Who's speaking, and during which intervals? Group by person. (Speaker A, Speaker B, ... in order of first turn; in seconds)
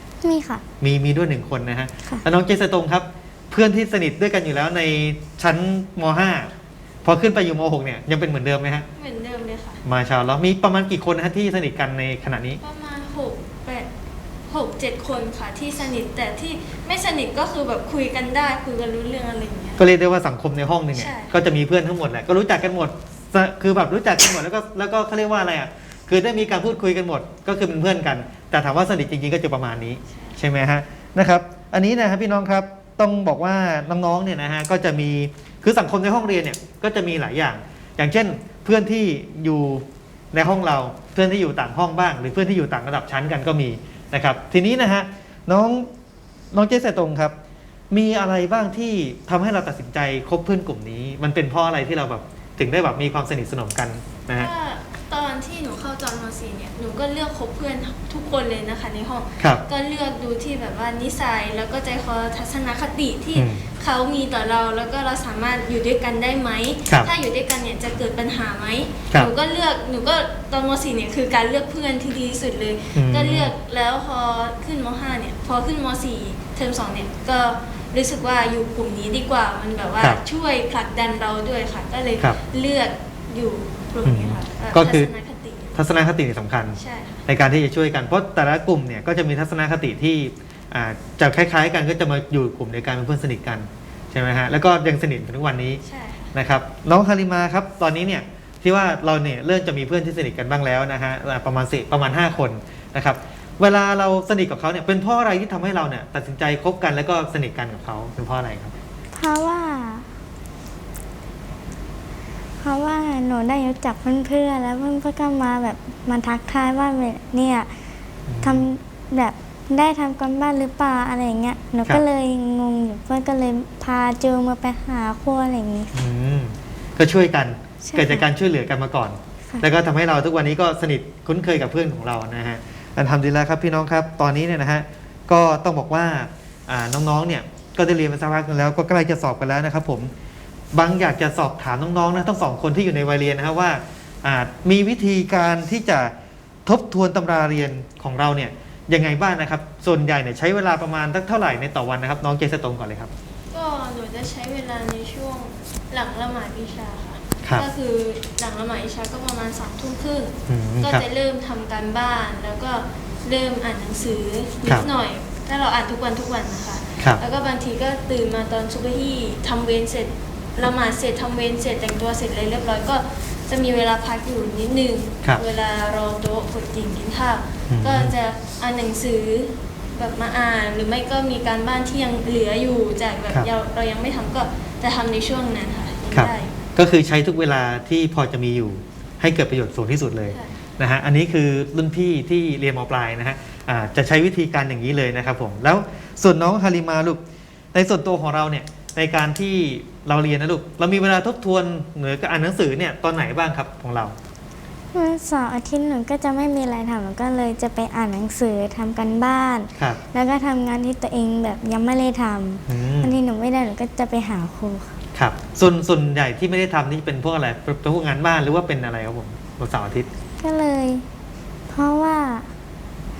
Speaker A: 0.2-0.6, 109.1-110.1, 112.6-117.7, 118.4-125.9, 127.8-128.3, 204.9-215.0, 220.4-221.0, 221.7-222.5
Speaker B: 0.8-6.5, 7.0-8.8, 9.8-12.6, 19.8-45.9, 46.5-47.3, 47.9-54.5, 63.3-63.7, 72.9-73.5, 84.0-85.1, 85.7-95.8, 96.3-108.7, 118.3-118.7, 125.9-140.1, 140.7-146.1, 146.7-153.1, 160.5-161.0, 177.7-178.1, 186.1-197.2, 197.7-204.1, 212.7-213.2, 215.1-220.1
Speaker C: 8.9-9.8, 12.6-13.9, 14.5-19.8, 20.9-21.4, 30.1-30.4, 54.3-85.8, 86.8-87.2, 95.8-96.3, 153.5-186.6, 190.3-190.6